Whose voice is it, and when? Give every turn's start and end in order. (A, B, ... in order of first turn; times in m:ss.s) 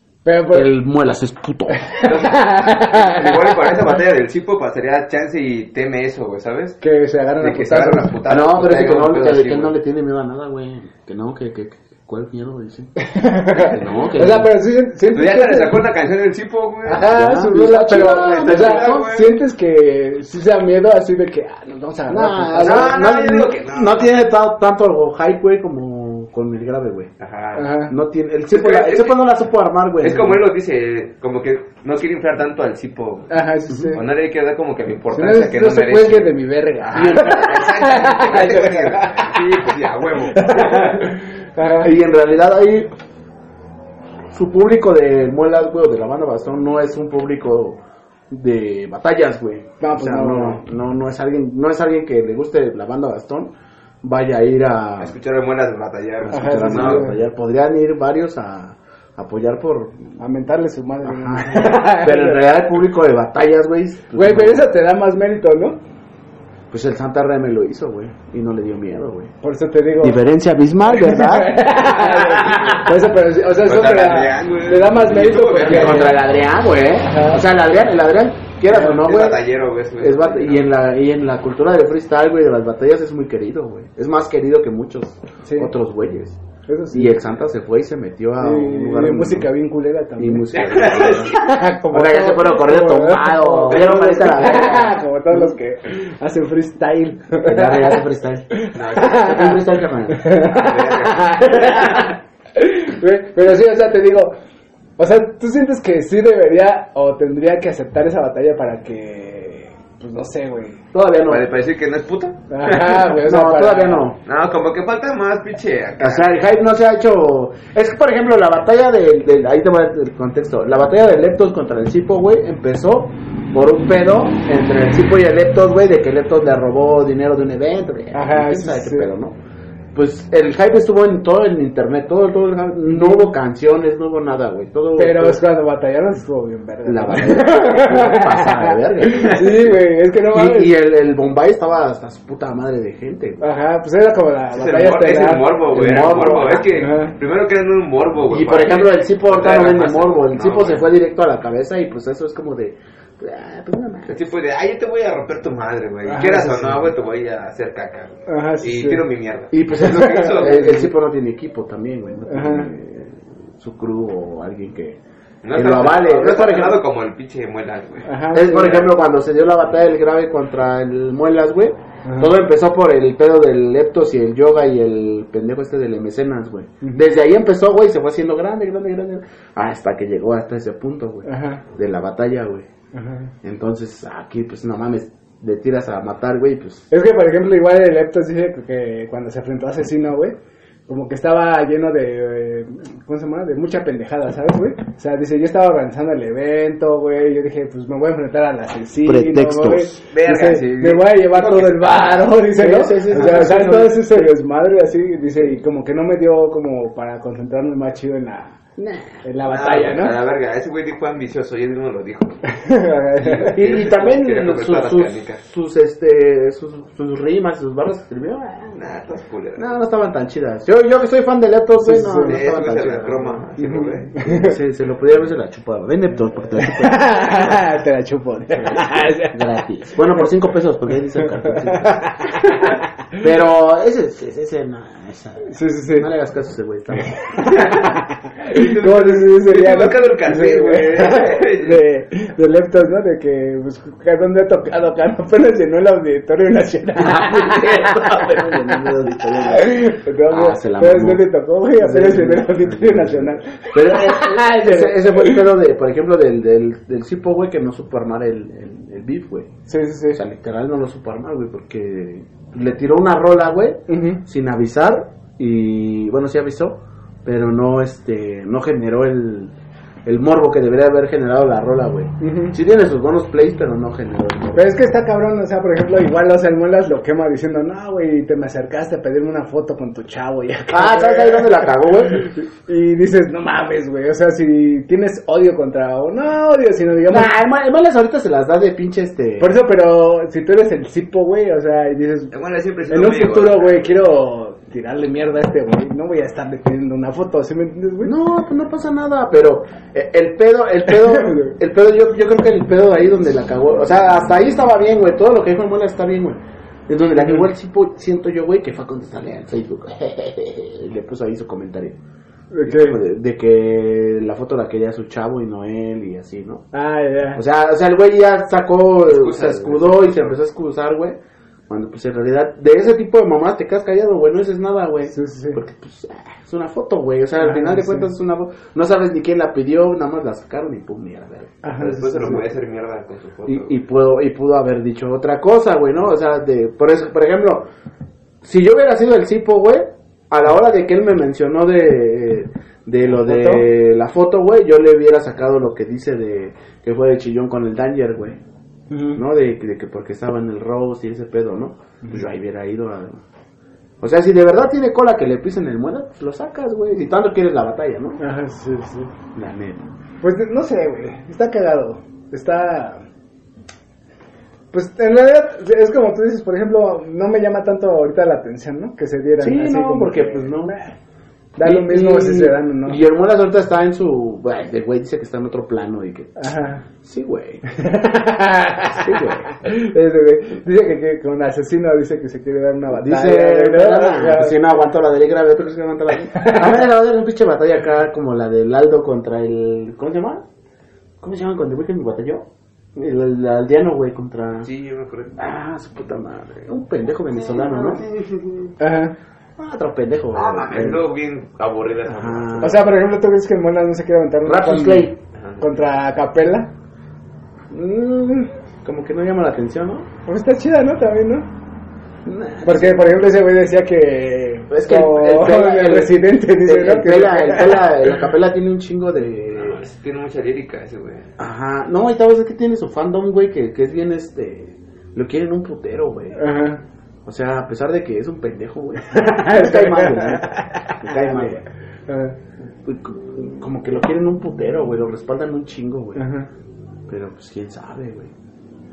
0:00.2-0:00.7 A
0:00.5-0:02.0 B
0:01.7-0:03.8 A
0:02.0-0:06.8 C
0:06.8-0:08.2 A
0:07.4-0:09.7 C
0:08.2-0:12.9 B
0:13.0-0:15.9 A
0:13.5-0:14.5 B
0:15.1-0:17.2 C
0:16.8-0:23.0 A
0:17.1-0:19.2 B
0:17.7-0:19.4 C
0:22.1-0:27.1 B
0:22.6-0:24.2 C
0:27.2-0:27.7 C
0:27.6-0:27.9 A
0:27.9-0:30.4 B
0:28.5-0:29.3 C
0:30.0-0:33.3 C
0:33.3-0:34.0 A
0:33.9-0:36.3 C
0:35.1-0:39.6 A
0:36.9-0:40.9 C
0:36.9-0:37.6 B
0:40.3-0:41.9 A
0:41.8-0:42.9 B
0:44.3-0:55.2 B
0:49.8-0:50.6 A
0:55.0-0:57.1 C
0:56.2-1:00.2 B
0:56.3-0:57.2 A
1:00.2-1:02.4 A
1:01.0-1:04.6 B
1:04.1-1:05.8 A
1:06.7-1:09.3 B
1:09.4-1:10.2 A
1:10.0-1:12.7 B
1:10.9-1:16.2 A
1:12.0-1:12.9 C
1:13.6-1:16.2 C
1:15.6-1:19.4 B
1:17.0-1:17.8 A
1:18.7-1:19.0 A
1:18.7-1:20.6 C
1:20.0-1:26.4 B
1:25.4-1:25.7 A
1:26.7-1:27.2 A
1:26.9-1:29.5 B
1:28.4-1:38.0 A
1:30.2-1:35.5 B
1:30.5-1:31.4 C
1:33.7-1:34.4 C
1:37.4-1:40.4 B
1:38.6-1:44.4 A
1:38.7-1:39.4 C
1:40.3-1:42.0 C
1:45.0-1:50.8 A
1:50.9-1:51.5 B
1:51.2-1:53.1 C
1:52.5-1:54.1 A
1:53.2-1:54.2 B
1:54.2-1:56.3 C
1:56.0-2:09.4 B
2:08.1-2:09.1 A
2:09.9-2:15.4 B
2:12.9-2:13.3 A
2:15.0-2:20.7 A
2:16.8-2:19.7 B
2:20.3-2:23.4 B
2:23.4-2:27.1 A
2:24.5-2:30.9 C
2:25.7-2:26.9 B
2:28.3-2:34.2 B
2:34.1-2:40.9 C
2:36.0-2:36.9 A
2:38.3-2:39.0 A
2:39.5-2:45.0 B
2:39.8-2:40.9 A
2:42.3-2:42.7 A
2:45.4-2:48.1 C
2:45.5-2:46.8 B
2:48.0-2:48.9 A
2:48.3-3:02.7 B
2:52.0-2:52.3 A
3:01.2-3:01.6 A
3:02.9-3:03.3 A
3:03.4-3:06.8 B
3:06.9-3:28.6 A
3:19.0-3:20.0 B
3:20.1-3:22.3 C
3:22.4-3:24.3 B
3:23.1-3:23.5 C
3:28.8-3:29.2 B
3:29.2-3:30.2 A
3:29.4-3:32.5 C
3:32.5-3:33.6 A
3:33.2-3:35.4 C
3:33.5-3:38.8 B
3:38.7-3:39.6 C
3:39.6-3:43.4 B
3:41.7-3:42.4 A
3:42.2-3:44.2 C
3:43.6-3:44.6 A
3:44.2-3:47.6 B
3:46.6-3:49.4 A
3:48.6-3:52.3 B
3:51.4-3:52.8 A
3:53.2-3:57.7 B
3:55.5-3:56.1 A
3:57.2-4:07.8 A
3:57.5-3:57.9 C
3:58.4-4:01.8 C
4:07.0-4:11.2 B
4:07.7-4:08.2 C
4:09.5-4:15.5 A
4:11.8-4:19.5 B
4:19.7-4:20.2 A
4:20.1-4:29.5 B
4:23.9-4:24.2 A
4:30.0-4:34.8 B
4:32.2-4:32.6 A
4:34.6-4:47.3 A
4:40.7-4:42.3 B
4:47.1-4:49.6 B
4:49.4-4:52.3 A
4:52.3-4:53.8 C
4:52.9-4:58.1 A
4:58.0-5:12.0 B
5:00.9-5:01.5 A
5:07.2-5:07.5 A
5:12.5-5:13.0 A
5:12.6-5:16.6 B
5:16.7-5:17.4 A
5:17.3-5:21.2 B
5:19.1-5:20.4 C
5:21.7-5:31.6 B
5:25.1-5:25.6 A
5:27.4-5:28.1 A
5:31.6-5:32.4 A
5:31.8-5:33.7 C
5:33.4-5:37.7 B
5:38.4-5:48.4 B
5:43.2-5:43.6 A
5:48.9-5:49.2 A
5:49.1-5:53.2 B
5:52.0-5:52.3 A
5:54.0-5:58.2 B
5:58.2-5:59.1 A
5:59.3-5:59.9 B
6:00.2-6:03.0 A
6:04.7-6:10.9 A
6:09.4-6:10.7 B
6:11.6-6:13.0 A
6:11.6-6:17.6 B
6:16.4-6:16.8 A
6:17.7-6:24.7 A
6:18.9-6:19.5 B
6:22.9-6:30.4 B
6:26.3-6:26.7 A
6:31.2-6:34.7 B
6:34.6-6:35.4 C
6:35.4-6:38.0 B
6:37.5-6:38.7 C
6:38.8-6:39.1 A
6:39.6-6:41.0 B
6:40.3-6:42.7 C
6:42.1-6:42.9 B
6:42.6-6:46.7 A
6:44.4-6:45.2 B
6:45.4-6:45.6 C
6:47.7-6:50.1 B
6:50.2-6:51.5 A
6:52.2-6:53.3 B
6:52.6-6:58.1 A
6:54.7-6:59.8 B
6:59.5-7:01.3 C
7:01.4-7:06.5 B
7:06.3-7:06.8 A
7:07.2-7:11.6 B
7:09.1-7:12.4 A
7:12.8-7:16.2 B
7:16.2-7:16.5 A
7:17.1-7:18.3 B